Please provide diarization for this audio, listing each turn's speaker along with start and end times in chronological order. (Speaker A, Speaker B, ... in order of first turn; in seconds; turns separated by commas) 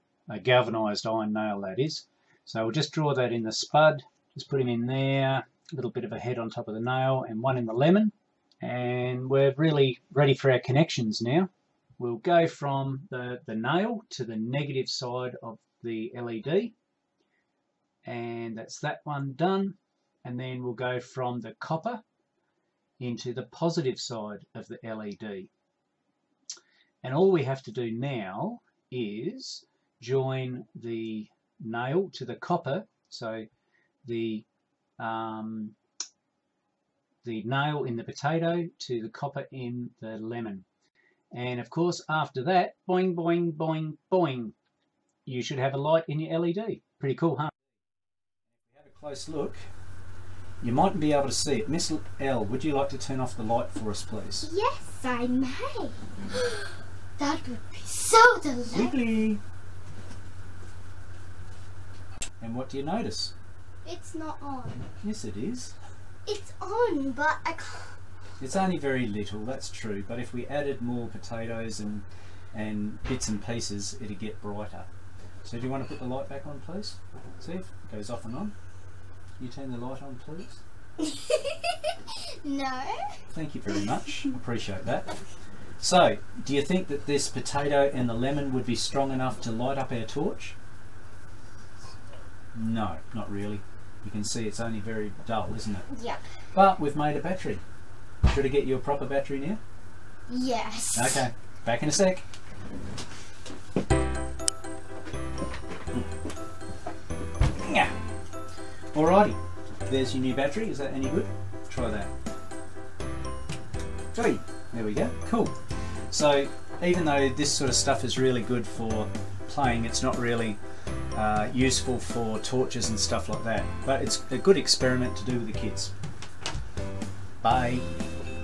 Speaker A: 0.3-16.7, Speaker A: 18.1-22.0, Speaker A: 23.0-25.5, Speaker A: 27.0-33.5, Speaker A: 34.0-34.5, Speaker A: 35.0-35.8, Speaker A: 37.2-40.7, Speaker A: 41.3-44.5, Speaker A: 45.3-47.6, Speaker A: 48.5-49.6, Speaker A: 50.6-54.5, Speaker B: 54.4-59.0, Speaker A: 58.7-59.4, Speaker A: 62.4-63.4, Speaker B: 63.8-64.9, Speaker A: 65.0-65.8, Speaker B: 66.3-68.0, Speaker A: 68.4-74.9, Speaker A: 75.4-78.5, Speaker A: 79.4-80.6, Speaker B: 81.0-83.2, Speaker A: 83.3-85.1, Speaker A: 85.8-90.6, Speaker A: 92.5-95.9, Speaker B: 95.9-96.2, Speaker A: 96.5-97.6, Speaker A: 98.3-99.6, Speaker B: 100.3-101.3, Speaker A: 100.9-102.2, Speaker A: 107.6-107.9, Speaker A: 108.9-112.1, Speaker A: 114.1-115.6, Speaker A: 116.1-120.6, Speaker A: 121.1-125.9, Speaker A: 127.4-127.8